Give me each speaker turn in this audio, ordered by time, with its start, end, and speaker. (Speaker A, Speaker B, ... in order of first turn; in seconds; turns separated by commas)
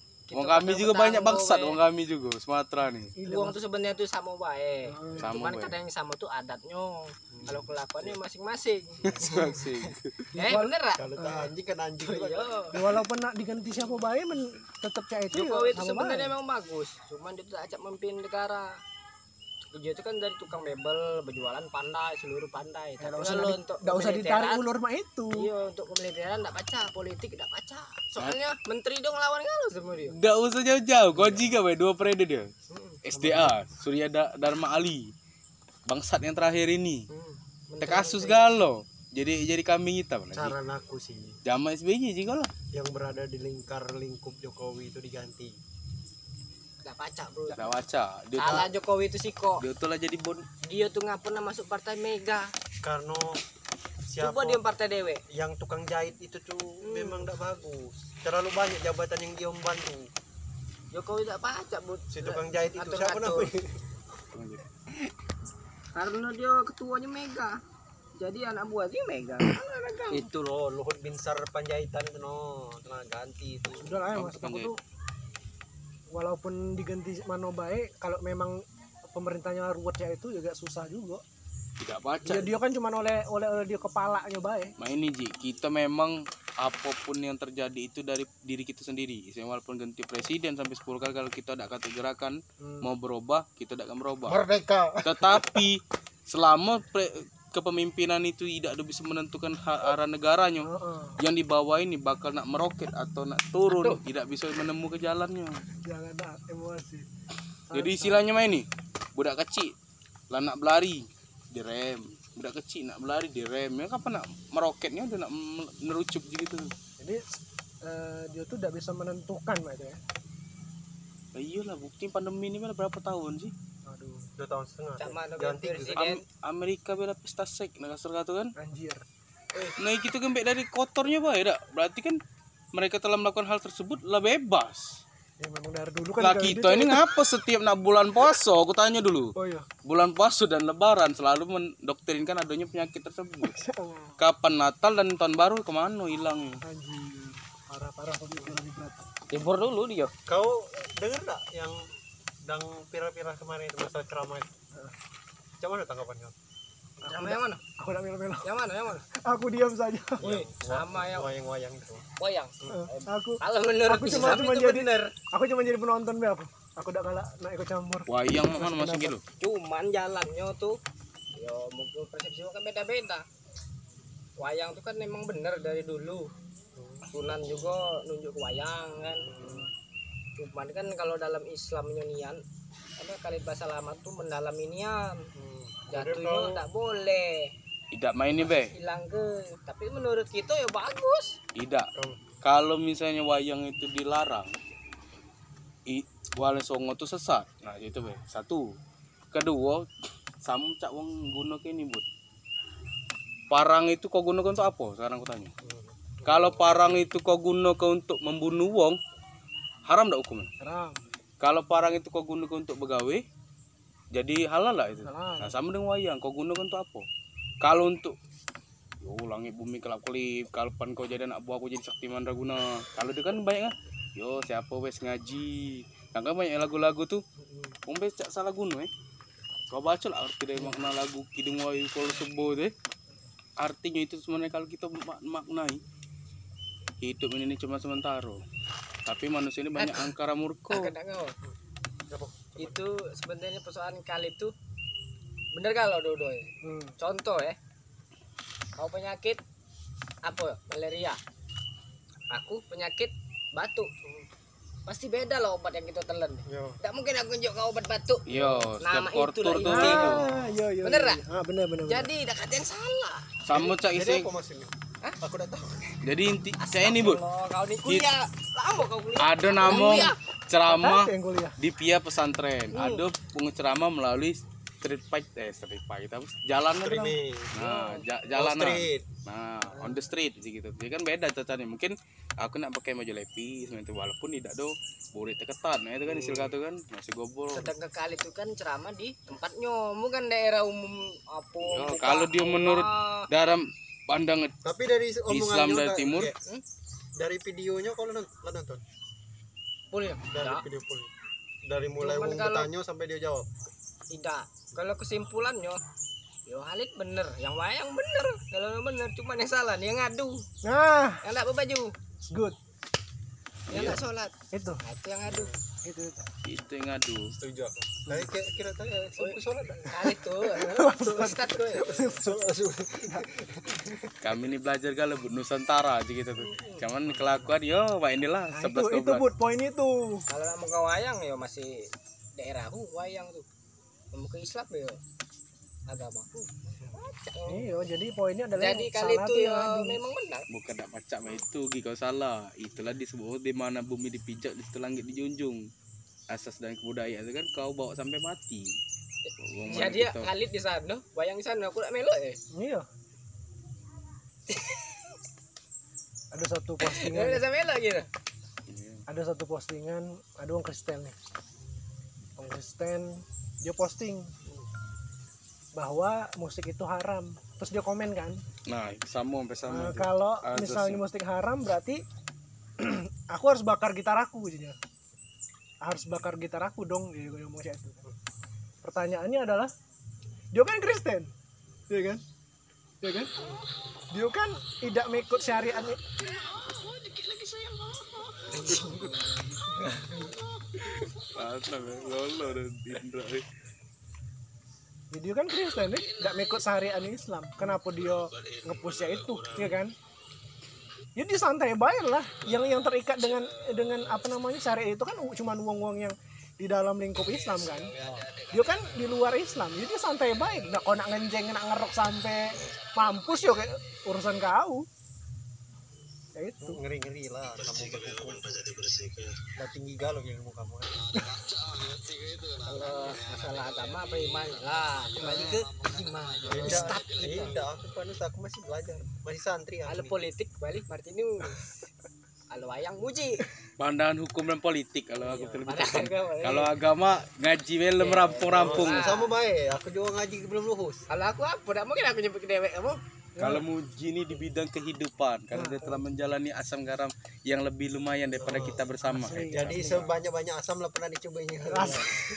Speaker A: 0.3-1.8, Speaker B: 0.3-3.1, Speaker C: 3.1-3.6, Speaker A: 3.2-9.7, Speaker C: 4.9-5.3, Speaker B: 5.2-5.8, Speaker D: 7.3-7.7, Speaker B: 9.0-10.3, Speaker A: 10.4-11.0, Speaker C: 10.4-11.5, Speaker D: 11.0-12.5, Speaker A: 12.0-12.7, Speaker C: 12.7-16.3, Speaker A: 15.3-18.7, Speaker A: 19.7-24.6, Speaker C: 23.0-25.5, Speaker A: 25.3-30.1, Speaker B: 30.1-32.5, Speaker D: 31.1-31.4, Speaker A: 32.7-33.0, Speaker B: 33.0-35.1, Speaker D: 33.1-33.6, Speaker B: 35.9-37.0, Speaker A: 37.1-38.4, Speaker B: 37.8-40.5, Speaker D: 40.3-41.4, Speaker B: 41.4-42.5, Speaker D: 42.7-45.5, Speaker A: 46.8-47.7, Speaker B: 47.5-48.7, Speaker A: 48.4-49.6, Speaker B: 49.6-50.4, Speaker A: 50.6-52.5, Speaker D: 52.8-53.4, Speaker D: 54.1-54.6, Speaker A: 54.2-55.2, Speaker D: 55.3-60.1, Speaker A: 56.9-57.3, Speaker A: 60.9-63.5, Speaker D: 62.1-63.8, Speaker B: 64.3-64.6, Speaker A: 65.9-67.5, Speaker A: 68.2-70.3, Speaker D: 70.1-74.1, Speaker C: 73.8-74.8, Speaker B: 74.1-74.7, Speaker C: 76.1-81.2, Speaker B: 81.8-82.5, Speaker C: 82.2-84.7, Speaker B: 84.8-94.4, Speaker C: 92.6-92.9, Speaker D: 94.2-95.7, Speaker B: 95.0-105.6, Speaker C: 100.6-101.2, Speaker C: 105.8-107.0, Speaker C: 107.7-108.2, Speaker B: 107.7-109.7, Speaker B: 110.3-116.7, Speaker C: 117.0-120.0, Speaker B: 121.3-123.5, Speaker C: 123.9-124.3, Speaker D: 124.4-126.0, Speaker A: 125.0-126.2, Speaker B: 125.9-128.5, Speaker C: 128.6-129.0, Speaker B: 129.8-132.2, Speaker B: 132.7-135.0, Speaker C: 135.4-137.1, Speaker B: 136.2-139.3, Speaker C: 139.3-139.7, Speaker B: 139.8-143.6, Speaker C: 143.4-144.2, Speaker B: 144.2-146.6, Speaker C: 146.6-149.1, Speaker B: 149.3-150.1, Speaker D: 150.3-151.8, Speaker D: 152.4-154.5, Speaker D: 155.6-156.3, Speaker A: 157.0-157.6, Speaker C: 157.0-158.5, Speaker A: 158.4-159.0, Speaker C: 159.3-160.2, Speaker D: 160.2-162.0, Speaker A: 160.2-161.3, Speaker A: 162.2-165.1, Speaker C: 162.7-169.2, Speaker B: 168.1-169.2, Speaker A: 169.4-170.8, Speaker A: 171.3-173.2, Speaker A: 174.4-176.3, Speaker D: 176.8-177.1, Speaker A: 177.1-179.6, Speaker D: 179.2-179.7, Speaker A: 180.4-182.4, Speaker A: 183.0-185.2, Speaker D: 185.3-186.6, Speaker A: 185.9-187.5, Speaker B: 187.9-188.7, Speaker A: 188.4-191.3, Speaker B: 191.5-191.9, Speaker D: 191.9-192.2, Speaker B: 192.4-194.5, Speaker B: 195.9-198.6, Speaker B: 199.3-199.8, Speaker B: 200.4-202.0, Speaker B: 203.5-205.5, Speaker D: 205.6-207.0, Speaker B: 206.2-209.0, Speaker B: 209.8-210.5, Speaker C: 210.6-211.0, Speaker B: 211.4-213.2, Speaker B: 214.1-217.1, Speaker C: 215.0-215.6, Speaker B: 217.6-218.1, Speaker B: 219.0-227.2, Speaker A: 227.4-227.7, Speaker B: 227.9-228.9, Speaker B: 229.7-232.7, Speaker B: 233.6-235.8, Speaker B: 237.0-238.4, Speaker B: 239.1-240.9, Speaker A: 239.8-240.1, Speaker A: 240.7-241.3, Speaker D: 242.1-242.8, Speaker A: 242.6-244.5, Speaker A: 245.5-247.6, Speaker C: 246.6-246.9, Speaker A: 248.8-249.4, Speaker A: 250.2-251.2, Speaker A: 252.3-253.9, Speaker A: 254.9-258.2, Speaker D: 256.5-256.8, Speaker B: 258.3-260.2, Speaker D: 258.3-258.6, Speaker A: 258.8-261.2, Speaker C: 259.7-262.1, Speaker A: 261.9-263.3, Speaker B: 263.4-264.3, Speaker D: 263.5-264.7, Speaker D: 265.2-265.9, Speaker B: 266.0-267.2, Speaker A: 266.6-270.2, Speaker B: 269.1-287.7, Speaker C: 270.7-271.6, Speaker A: 272.7-273.0, Speaker D: 276.8-277.5, Speaker A: 277.6-278.0, Speaker D: 278.3-279.0, Speaker A: 279.7-280.1, Speaker D: 286.0-286.5, Speaker A: 287.5-293.3, Speaker B: 291.7-294.5, Speaker D: 294.6-296.3, Speaker B: 295.3-296.3, Speaker D: 297.2-298.8, Speaker A: 299.9-300.6, Speaker D: 300.3-301.1, Speaker D: 301.6-303.5, Speaker A: 302.0-302.7, Speaker A: 304.1-305.8, Speaker A: 306.4-310.4, Speaker C: 310.6-311.2, Speaker A: 311.2-311.9, Speaker C: 312.2-312.6, Speaker A: 313.7-314.3, Speaker B: 313.7-314.0, Speaker C: 314.5-314.8, Speaker A: 314.8-315.5, Speaker D: 315.2-315.6, Speaker C: 315.8-316.3, Speaker B: 316.4-317.2, Speaker D: 317.3-319.9, Speaker A: 319.2-322.1, Speaker C: 320.6-322.4, Speaker D: 321.5-324.0, Speaker B: 324.2-329.3, Speaker A: 326.4-326.9, Speaker C: 328.5-330.2, Speaker A: 330.3-331.8, Speaker A: 332.4-333.4, Speaker A: 334.1-335.0, Speaker A: 335.9-337.7, Speaker C: 337.5-340.0, Speaker A: 338.6-340.5, Speaker B: 340.5-345.6, Speaker B: 346.3-348.8, Speaker B: 349.4-350.3, Speaker A: 349.6-352.4, Speaker C: 352.5-352.9, Speaker A: 354.5-355.0, Speaker C: 356.3-357.4, Speaker A: 356.8-358.1, Speaker B: 358.7-359.0, Speaker C: 359.1-361.2, Speaker C: 362.4-364.3, Speaker C: 365.7-368.4, Speaker B: 368.7-371.0, Speaker C: 369.6-372.0, Speaker C: 372.8-374.8, Speaker C: 375.8-378.0, Speaker C: 378.8-379.7, Speaker C: 380.5-381.3, Speaker C: 381.9-382.2, Speaker C: 383.0-383.3, Speaker C: 384.1-386.0, Speaker D: 387.6-388.1, Speaker A: 388.5-390.3, Speaker B: 388.6-389.1, Speaker B: 390.8-393.4, Speaker C: 395.1-399.9, Speaker C: 401.1-407.9, Speaker D: 407.9-408.3, Speaker C: 408.5-414.9, Speaker C: 416.4-416.8, Speaker D: 416.6-418.8, Speaker D: 419.5-421.1, Speaker A: 422.6-427.6, Speaker D: 426.5-430.1, Speaker C: 426.5-426.9, Speaker A: 429.9-431.8, Speaker A: 432.5-433.5, Speaker B: 433.8-439.0, Speaker A: 435.2-436.7, Speaker A: 438.0-439.3, Speaker D: 438.5-441.1, Speaker A: 441.1-443.0, Speaker C: 443.4-443.6, Speaker B: 443.4-449.6, Speaker C: 445.5-446.0, Speaker D: 448.4-448.8, Speaker C: 449.0-450.1, Speaker D: 449.5-452.2, Speaker C: 451.7-452.1